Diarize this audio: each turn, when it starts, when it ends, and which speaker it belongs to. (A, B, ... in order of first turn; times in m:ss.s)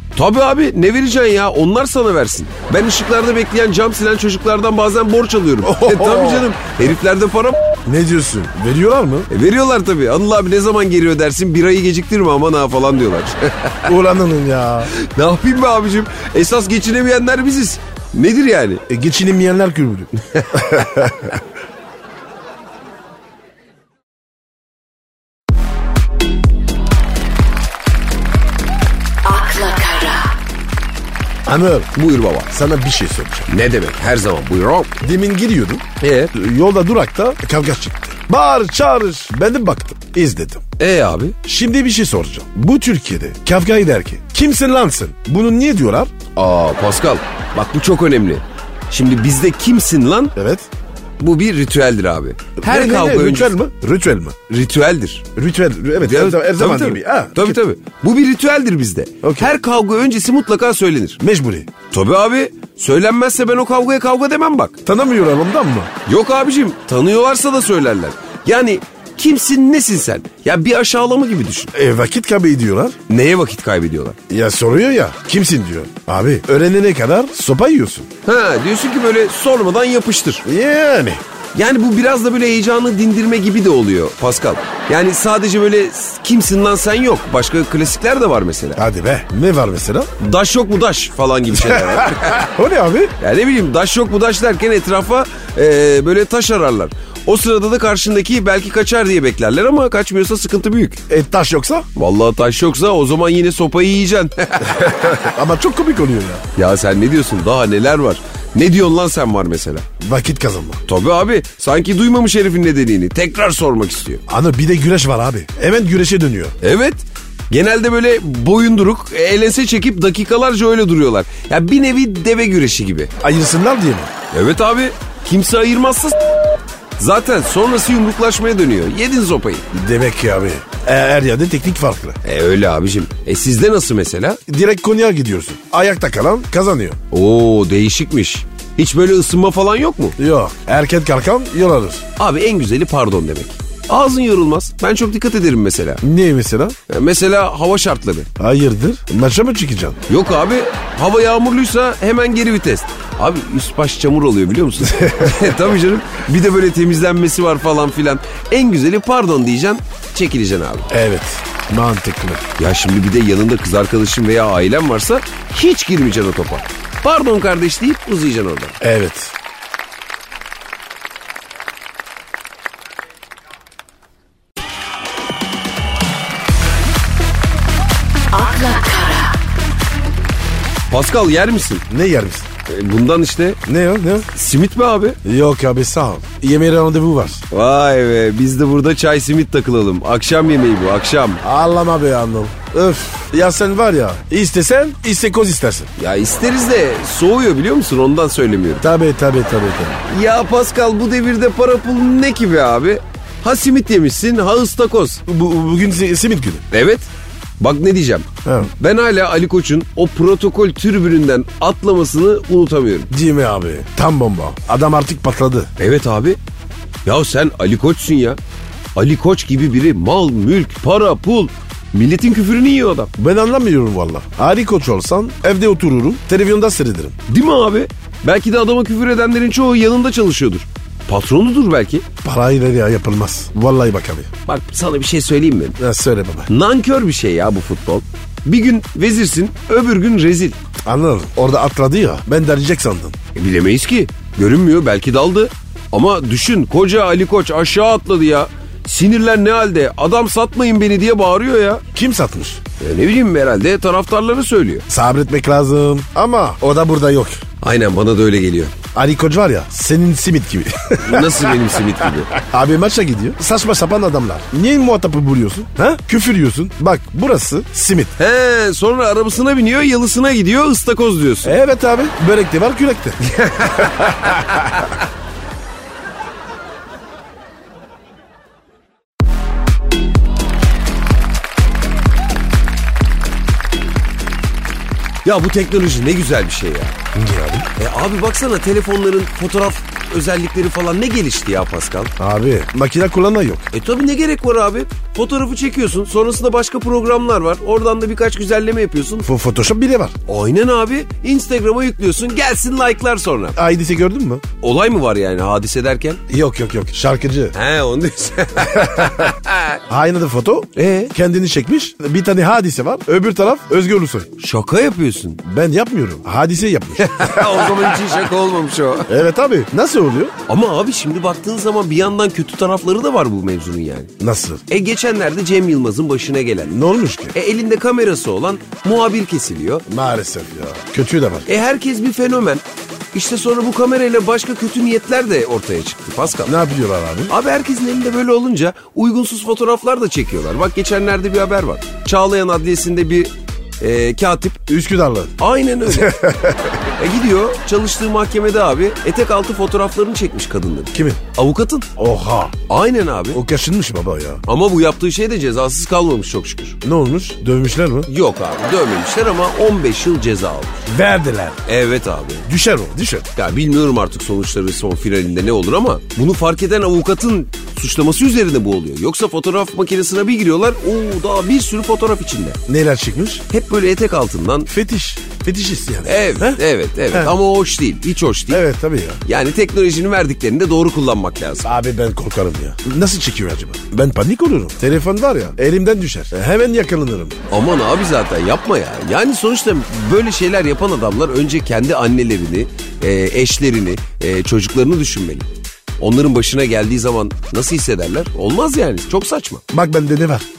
0:00.2-0:07.6 A
0:05.6-0:06.5 B
0:07.8-0:09.3 B
0:09.3-0:13.9 A
0:13.8-0:14.9 B
0:14.9-0:18.8 A
0:18.9-0:21.4 B
0:20.3-0:20.6 A
0:29.2-0:30.3 C
0:31.4-0:31.9 B
0:31.9-0:32.5 A
0:32.5-0:33.5 B
0:33.5-0:34.9 A
0:35.0-0:40.6 B
0:36.0-0:36.3 A
0:40.8-0:41.4 A
0:41.4-0:46.1 B
0:46.4-0:50.3 A
0:50.3-0:50.7 B
0:51.2-0:53.6 A
0:52.6-0:54.4 B
0:54.5-0:55.2 A
0:55.4-0:57.6 B
0:56.0-1:01.2 A
0:59.2-0:59.5 B
1:01.2-1:01.7 B
1:01.9-1:04.8 A
1:04.8-1:05.9 B
1:06.0-1:11.7 A
1:11.7-1:13.0 B
1:13.1-1:14.2 A
1:14.3-1:18.1 B
1:18.2-1:20.4 A
1:20.4-1:21.2 B
1:21.5-1:28.8 A
1:28.8-1:30.1 B
1:30.2-1:32.4 A
1:31.5-1:33.1 B
1:33.2-1:41.0 A
1:41.1-1:41.9 B
1:42.0-1:45.3 A
1:44.8-1:46.4 B
1:46.6-1:49.8 A
1:50.0-1:50.8 B
1:50.9-1:54.2 A
1:54.3-1:56.6 B
1:56.6-2:03.1 A
2:03.2-2:04.1 B
2:04.3-2:06.2 A
2:07.0-2:09.7 A
2:09.7-2:12.2 B
2:12.2-2:14.4 A
2:14.5-2:17.0 B
2:17.1-2:20.2 A
2:20.2-2:22.0 B
2:22.2-2:26.0 A
2:26.0-2:26.8 B
2:26.9-2:28.3 A
2:28.4-2:30.0 B
2:30.1-2:40.9 A
2:34.8-2:35.6 B
2:40.9-2:42.4 B
2:42.6-2:48.8 A
2:48.8-2:49.3 B
2:58.3-2:59.4 C
3:00.9-3:01.8 A
3:01.9-3:02.5 B
3:02.6-3:03.6 A
3:03.6-3:04.3 B
3:04.3-3:05.2 A
3:05.2-3:07.4 B
3:07.5-3:11.4 A
3:11.4-3:15.9 B
3:16.0-3:18.8 A
3:18.8-3:20.0 B
3:20.0-3:25.2 A
3:25.3-3:26.6 B
3:26.7-3:27.1 A
3:27.6-3:33.1 A
3:28.4-3:28.7 B
3:33.1-3:35.7 B
3:35.8-3:36.4 A
3:37.0-3:38.4 A
3:39.0-3:43.1 A
3:43.2-3:47.2 B
3:47.3-3:52.0 A
3:52.2-3:54.3 B
3:54.5-3:55.8 A
3:55.8-3:56.5 B
3:56.5-4:00.6 A
4:00.8-4:03.2 B
4:03.3-4:11.8 A
4:11.9-4:12.6 B
4:12.8-4:14.8 A
4:14.9-4:17.4 B
4:17.6-4:18.7 A
4:18.9-4:28.1 B
4:21.0-4:22.3 A
4:28.2-4:31.6 A
4:31.4-4:33.2 B
4:33.2-4:34.9 A
4:33.8-4:34.9 B
4:45.2-4:46.9 A
4:47.1-4:47.7 B
4:47.8-4:52.1 A
4:52.2-4:53.7 B
4:53.7-4:59.3 A
4:59.2-5:00.1 B
5:00.3-5:03.6 A
5:03.5-5:04.4 B
5:04.6-5:06.2 A
5:06.3-5:07.5 B
5:07.5-5:09.8 A
5:08.6-5:09.3 B
5:09.9-5:14.3 B
5:10.8-5:11.1 A
5:14.4-5:15.4 A
5:15.4-5:18.0 B
5:17.0-5:19.1 A
5:19.1-5:20.3 B
5:20.5-5:24.1 A
5:24.2-5:24.6 B
5:24.7-5:26.8 A
5:26.7-5:27.3 B
5:27.3-5:29.8 A
5:29.9-5:31.5 B
5:31.4-5:36.5 A
5:36.4-5:37.3 B
5:37.3-5:44.6 A
5:44.7-5:45.4 B
5:45.4-5:46.2 A
5:45.9-5:46.8 B
5:47.0-5:51.9 A
5:50.9-5:51.2 B
5:52.0-5:52.6 B
5:52.7-5:53.4 A
5:53.3-5:54.4 B
5:54.4-5:56.8 A
5:56.8-5:58.1 B
5:58.1-6:00.8 A
6:00.8-6:01.6 B
6:01.6-6:02.4 A
6:02.4-6:03.3 B
6:03.4-6:12.6 A
6:12.7-6:13.4 B
6:13.5-6:14.7 A
6:14.7-6:16.6 B
6:16.0-6:18.6 A
6:18.5-6:19.2 B
6:19.2-6:21.7 A
6:21.6-6:27.4 B
6:27.5-6:35.4 A
6:36.0-6:39.6 A
6:39.7-6:40.4 B